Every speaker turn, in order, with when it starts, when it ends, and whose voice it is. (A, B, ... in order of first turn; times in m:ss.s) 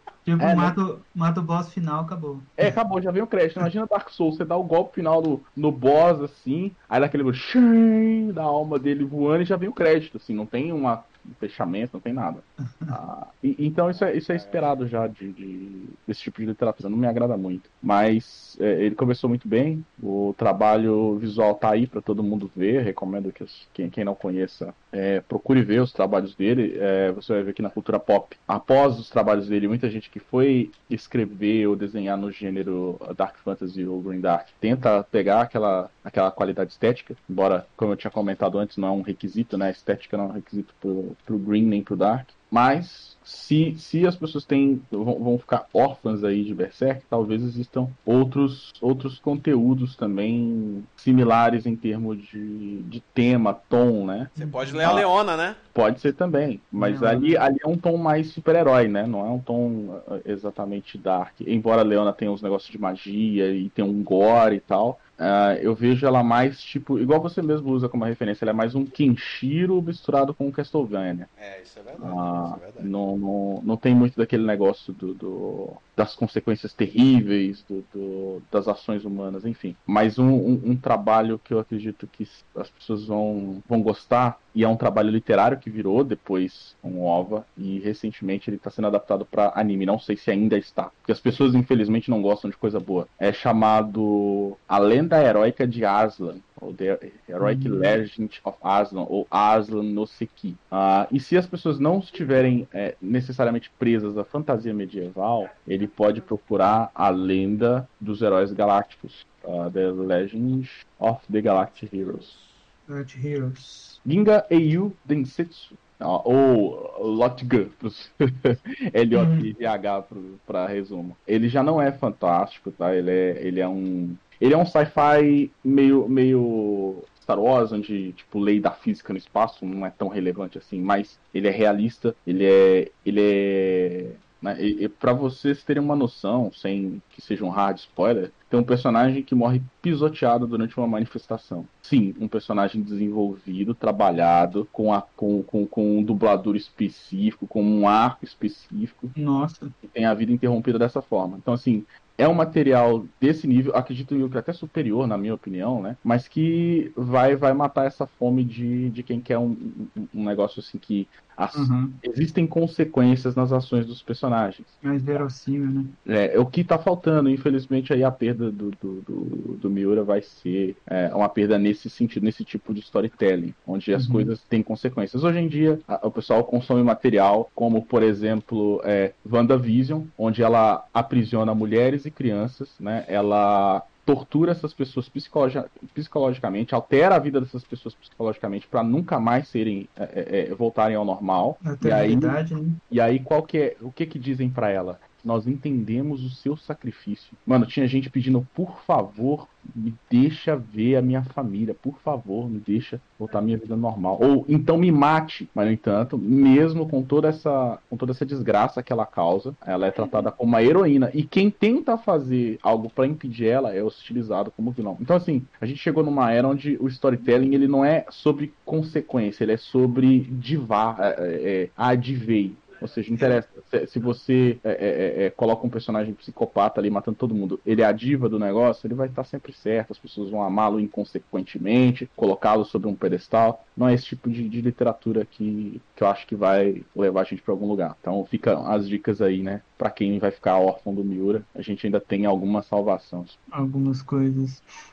0:00.2-0:02.8 A
0:00.4-0:00.8 B
0:02.6-0:54.3 B
0:13.9-0:14.8 C
0:54.3-0:55.6 C
0:54.4-0:54.9 A
0:55.7-1:11.3 B
0:56.7-0:57.5 A
1:11.4-1:12.9 C
1:12.0-1:52.3 B
1:37.4-1:38.0 A
1:51.5-1:52.7 C
1:52.9-1:54.0 A
1:54.0-2:29.1 B
1:59.1-1:59.5 A
2:29.1-2:29.7 A
2:29.8-2:45.2 B
2:41.5-2:42.0 A
2:44.8-2:46.0 A
2:46.0-4:03.4 B
2:53.9-2:54.3 A
3:11.6-3:12.8 A
3:43.2-3:43.4 A
4:03.5-4:04.6 A